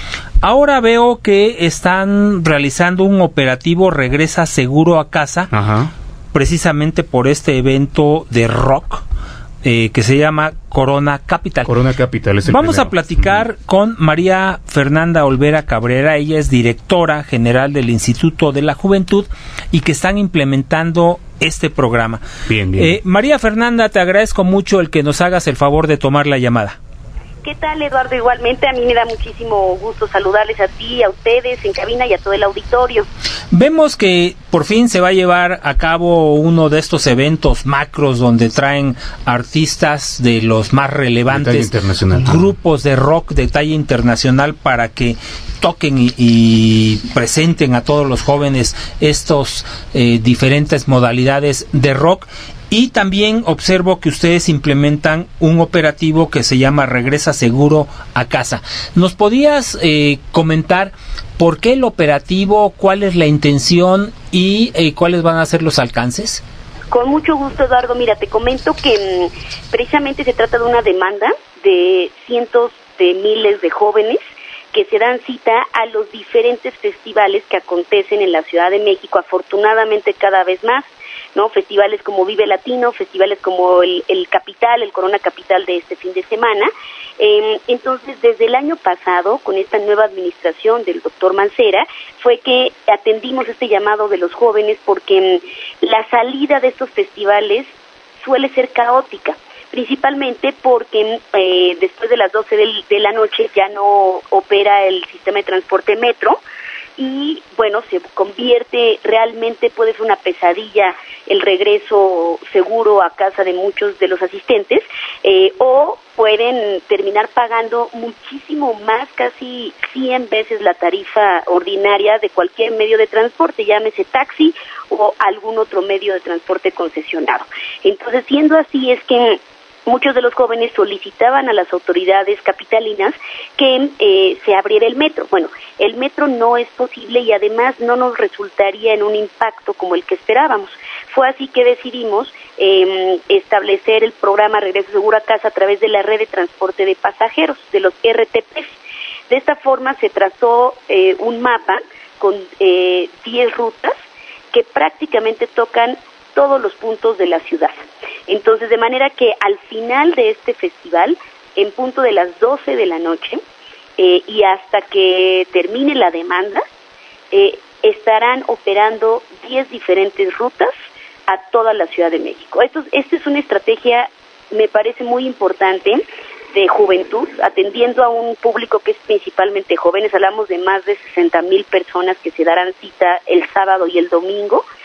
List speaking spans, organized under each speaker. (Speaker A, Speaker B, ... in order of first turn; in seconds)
Speaker A: 0.4-5.5, 6.3-9.1, 9.6-11.7, 12.5-22.2, 22.8-26.8, 33.5-66.4
Speaker B: 5.5-5.9, 11.7-13.4, 22.5-23.0, 41.3-42.5
Speaker C: 27.4-33.1, 66.9-74.2, 74.7-97.7, 98.2-106.4, 107.0-148.8, 149.3-153.9, 154.5-163.4, 164.0-166.6, 167.3-170.7, 171.3-184.7